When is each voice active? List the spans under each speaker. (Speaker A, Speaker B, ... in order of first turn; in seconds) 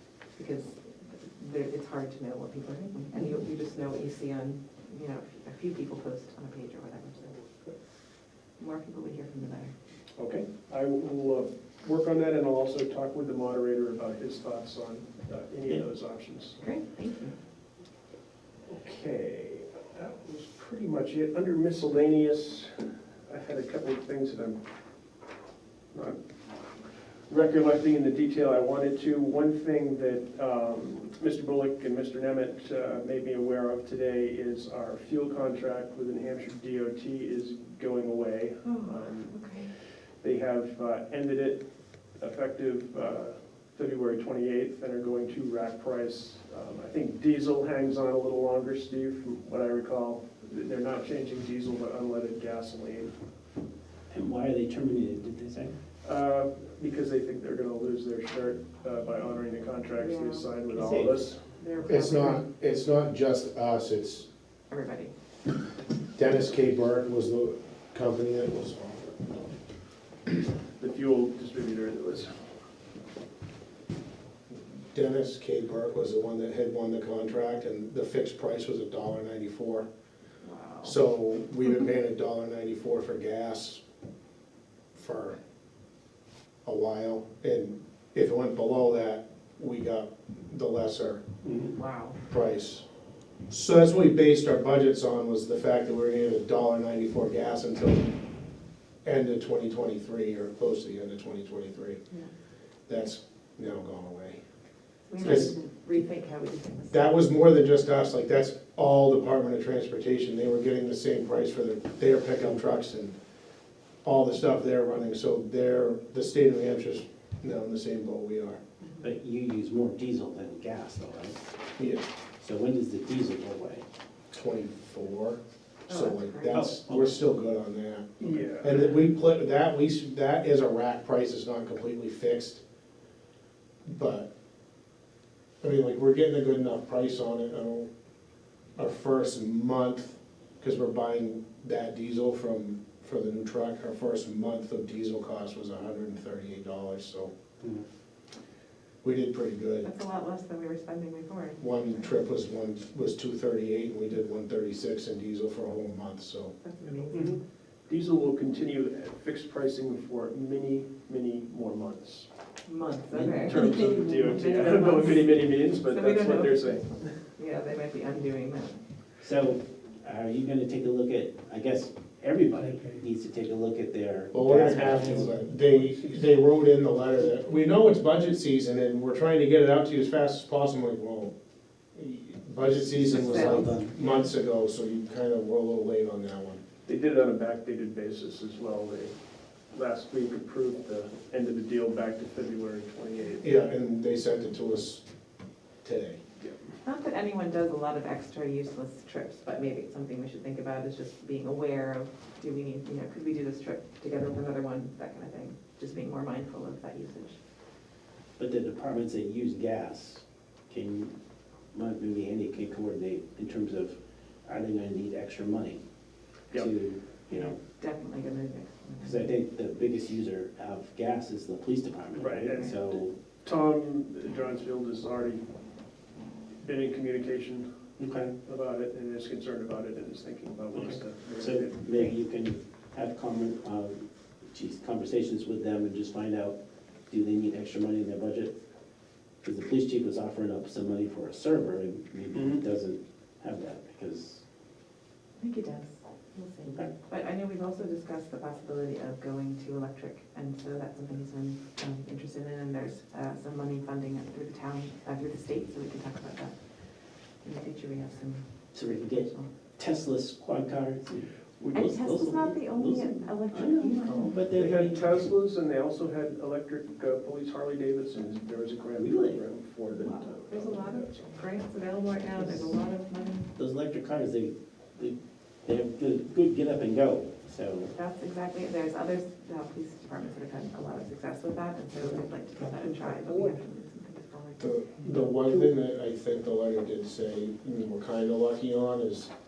Speaker A: 0.3-7.5, 8.6-9.7, 16.6-17.4, 38.6-39.7, 60.0-60.6, 61.6-62.4, 64.7-65.1, 80.4-81.0, 91.8-92.2, 105.1-107.1, 118.8-119.1, 125.9-126.6, 149.8-152.2, 156.6-157.4, 162.7-168.8, 183.2-184.3, 196.8-207.4, 217.3-219.4, 245.4-256.6, 257.4-259.5, 261.7-264.4, 270.0-273.5, 277.9-284.8
Speaker B: 10.2-16.6, 18.7-24.6, 25.9-39.4, 40.2-41.6, 42.2-53.1, 56.0-61.6, 70.8-72.5, 91.4-91.8, 128.2-129.0, 157.1-162.3, 163.4-167.1, 186.9-189.1, 189.7-193.5, 222.2-225.5, 226.6-227.7, 228.4-232.1, 242.3-242.6, 264.5-271.3, 282.8-283.6
Speaker C: 54.1-55.8, 60.7-61.3, 119.0-121.5, 122.4-123.8, 126.5-127.2, 163.1-164.3, 169.2-175.4, 182.9-183.9, 208.4-211.1, 211.7-215.8, 216.5-217.6, 219.0-223.2, 228.0-228.3, 230.7-236.6, 237.1-238.5, 239.4-244.4, 246.6-246.9, 258.7-265.4, 268.9-269.5, 272.4-272.8, 273.6-277.9, 282.0-282.6
Speaker D: 61.8-64.3, 66.2-69.3, 74.5-79.9, 80.8-83.8, 84.9-85.4, 86.7-91.2, 92.3-92.8, 93.5-98.1, 99.0-102.0, 102.9-104.4, 105.2-105.5, 106.9-113.2, 114.0-118.6, 121.8-122.1, 124.3-132.6, 133.8-134.3, 135.6-137.9, 138.8-147.3, 149.0-149.9, 151.6-156.6, 174.3-181.3, 181.9-186.6, 193.4-195.1, 195.8-196.2, 284.6-289.3